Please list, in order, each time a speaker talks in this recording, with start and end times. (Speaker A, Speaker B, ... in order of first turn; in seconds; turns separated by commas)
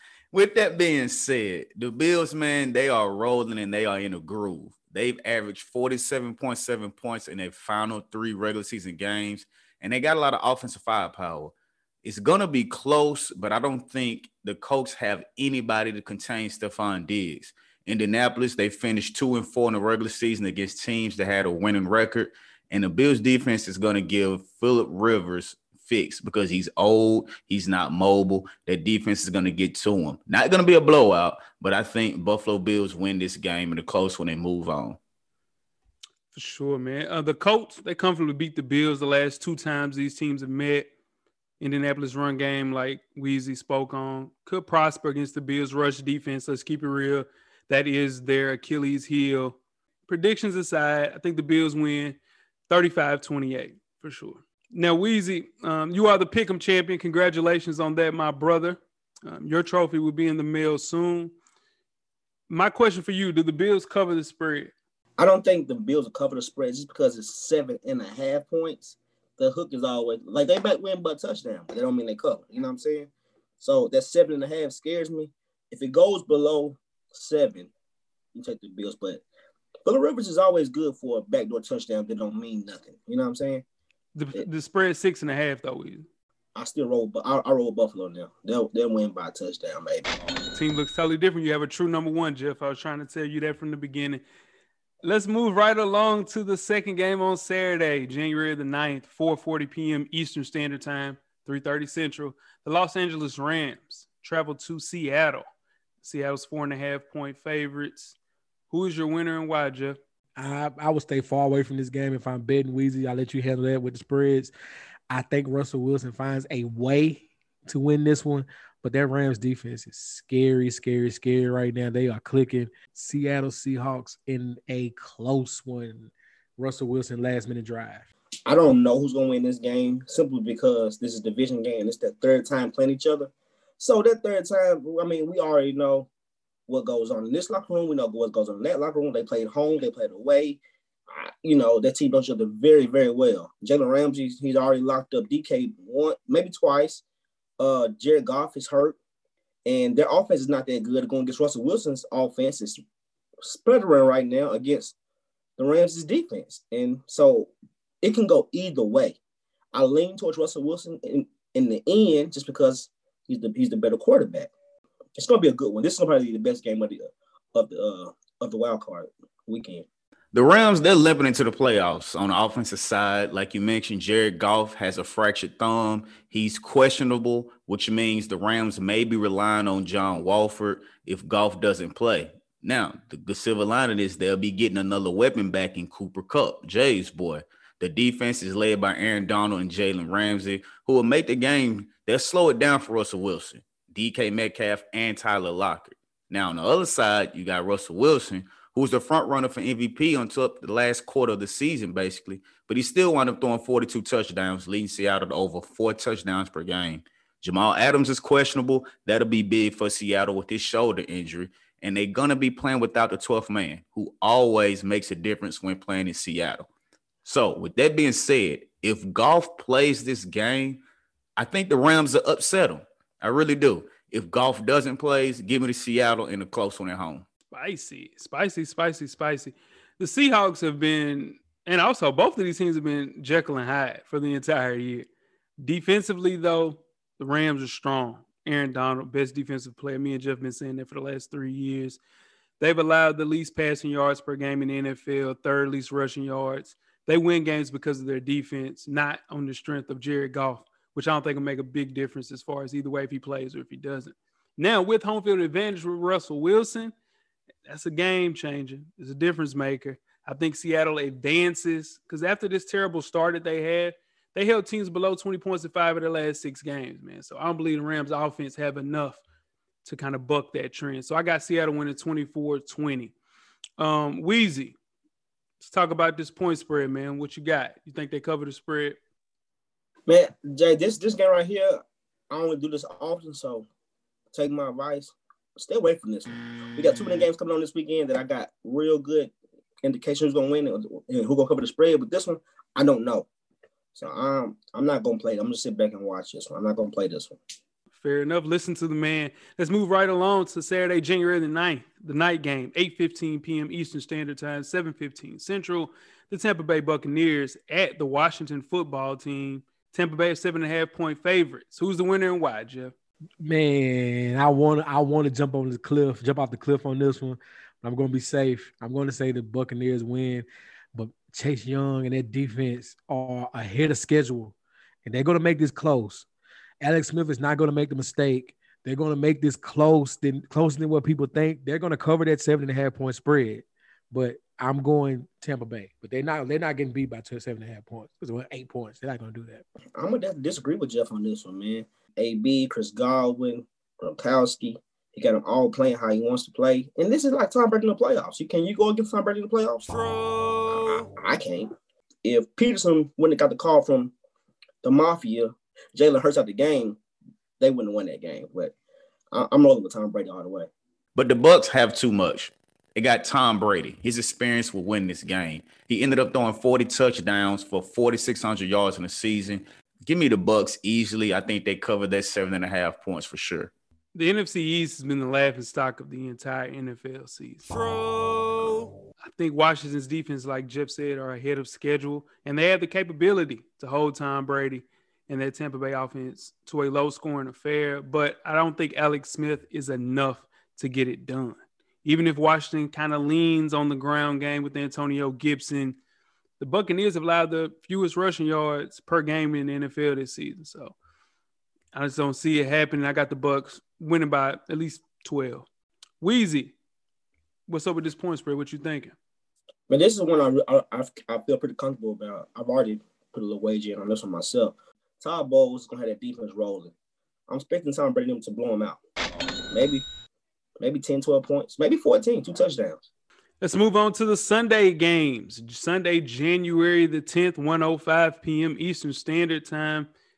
Speaker A: 0.3-35.0, Speaker B: 36.3-40.9, Speaker B: 41.6-52.2, Speaker B: 52.7-61.3, Speaker B: 62.5-64.7, Speaker C: 65.2-73.1, Speaker C: 73.6-77.7, Speaker C: 78.3-79.2, Speaker C: 79.8-83.6, Speaker B: 84.1-86.1, Speaker C: 86.5-90.0, Speaker B: 90.5-94.2, Speaker B: 95.0-105.5, Speaker B: 106.0-108.1, Speaker B: 108.7-110.0, Speaker D: 110.3-114.5, Speaker D: 115.1-128.1, Speaker C: 128.4-136.1, Speaker C: 136.7-147.0, Speaker C: 147.6-148.9, Speaker C: 149.6-152.8, Speaker C: 153.4-154.9, Speaker C: 155.6-159.2, Speaker C: 159.7-164.5, Speaker C: 165.2-169.8, Speaker A: 170.3-216.7, Speaker A: 217.2-220.8, Speaker A: 221.4-227.2, Speaker B: 227.5-235.1, Speaker B: 235.6-242.0, Speaker B: 242.6-256.9, Speaker B: 257.6-269.2, Speaker B: 269.8-273.1, Speaker B: 273.8-274.8, Speaker B: 275.6-279.0, Speaker C: 280.1-283.7, Speaker C: 284.3-289.3, Speaker C: 289.8-293.3, Speaker C: 293.9-297.4, Speaker B: 297.9-312.9, Speaker D: 313.4-326.3, Speaker D: 326.8-339.6, Speaker C: 340.0-350.0, Speaker C: 350.7-351.7, Speaker C: 352.2-354.1, Speaker C: 354.8-357.0, Speaker C: 357.6-358.7, Speaker C: 359.3-360.7, Speaker A: 361.1-373.7, Speaker B: 374.1-377.7, Speaker B: 379.2-396.0, Speaker B: 396.6-400.9, Speaker B: 401.9-405.7, Speaker B: 406.2-406.8, Speaker B: 407.7-409.1, Speaker C: 409.9-416.9, Speaker C: 417.5-419.0, Speaker C: 419.7-420.0, Speaker C: 420.8-423.0, Speaker B: 423.6-430.1